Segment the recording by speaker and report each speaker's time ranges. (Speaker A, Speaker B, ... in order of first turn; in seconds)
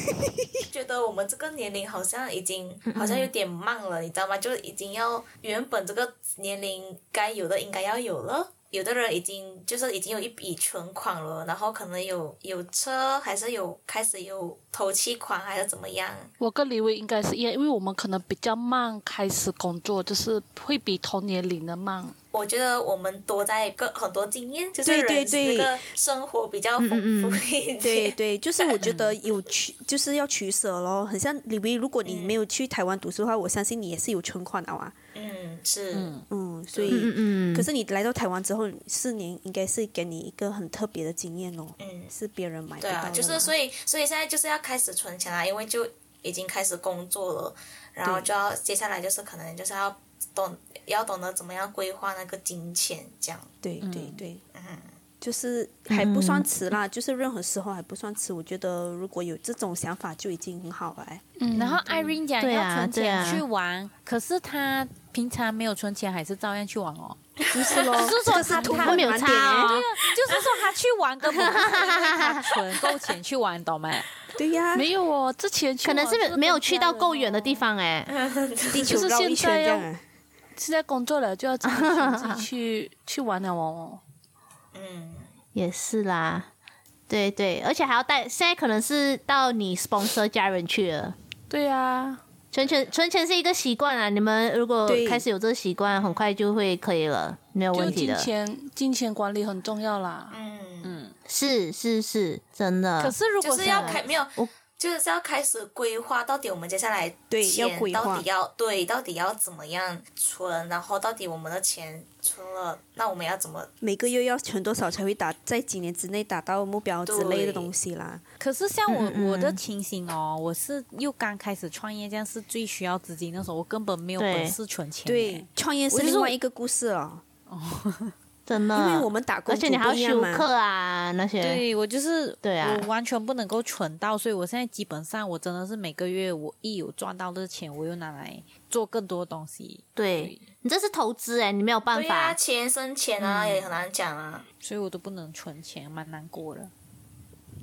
Speaker A: 0.7-16.3, 22.3-28.8, 32.0-32.4, 35.1-36.2, 36.7-37.0, 41.8-42.1, 42.8-53.5, 54.5-54.9, 67.4-67.9, 78.1-78.9, 84.7-85.3, 95.9-96.3, 100.3-101.0, 103.4-113.7, 117.0-117.7, 141.9-144.4
Speaker B: 2.9-3.3, 26.8-27.4, 36.9-37.7, 55.9-56.5, 62.4-63.4, 68.3-69.8, 71.2-72.5, 75.8-78.1, 81.6-82.5, 85.5-86.5, 87.1-91.2, 92.5-98.3, 101.3-103.2, 103.7-104.5, 118.9-119.6, 124.2-124.6, 125.9-126.3, 128.5-131.6, 132.4-132.8, 139.9-142.3, 143.2-143.7
Speaker C: 16.4-22.1, 61.4-62.1, 74.7-77.6, 78.8-79.9, 80.5-84.0, 91.5-92.2, 97.7-100.4
Speaker D: 24.8-25.8, 27.8-34.9, 36.3-43.5, 53.6-54.4, 55.2-61.2, 67.5-69.8, 74.4-74.9, 78.7-80.0, 94.8-95.2, 107.3-108.2, 113.8-118.2, 125.0-127.2, 128.7-130.5
Speaker E: 28.8-29.1, 35.9-36.2, 53.8-54.2, 61.5-67.2, 67.7-74.1, 100.8-101.1, 103.0-104.0, 118.4-126.3, 127.5-128.1, 131.4-140.4, 144.6-146.7